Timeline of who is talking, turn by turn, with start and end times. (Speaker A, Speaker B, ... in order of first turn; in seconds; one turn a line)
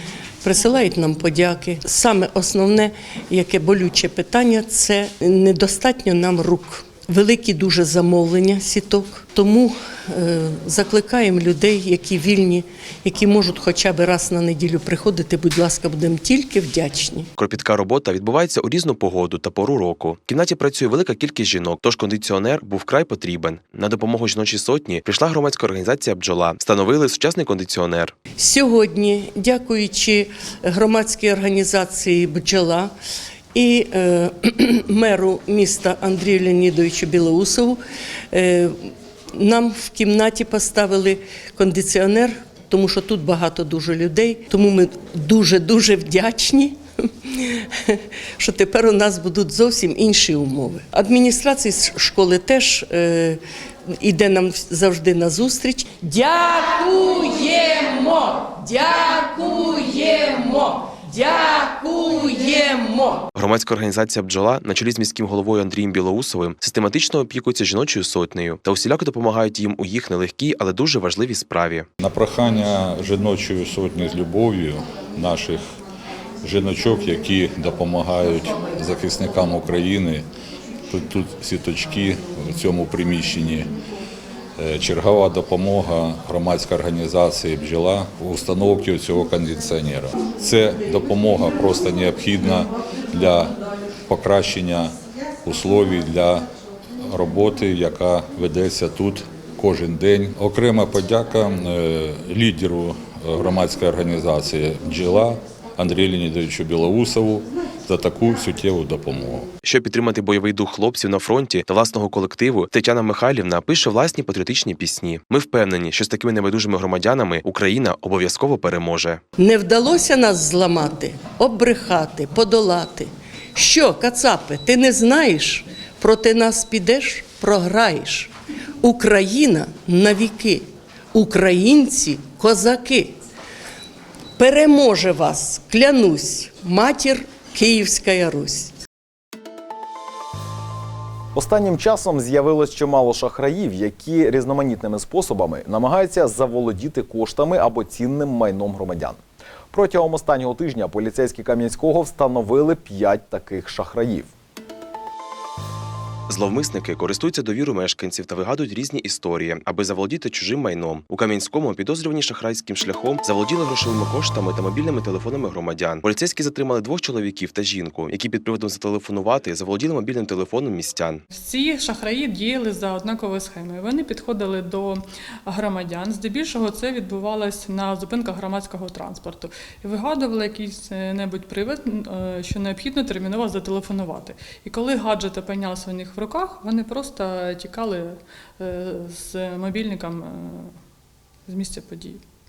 Speaker A: 0.4-17.3
Speaker B: 17.4-28.2
Speaker A: 28.4-32.9
Speaker A: 33.5-63.2
Speaker B: 63.3-71.8
Speaker C: 72.0-75.6
Speaker C: 76.4-80.2
Speaker C: 80.9-83.7
Speaker C: 84.6-93.5
Speaker C: 94.1-96.5
Speaker C: 97.1-109.5
Speaker B: 109.6-119.2
Speaker A: 119.4-133.2
Speaker A: 134.4-138.7
Speaker D: 141.3-149.2
Speaker D: 149.7-154.3
Speaker B: 156.3-171.2
Speaker E: 171.3-190.7
Speaker E: 191.5-192.2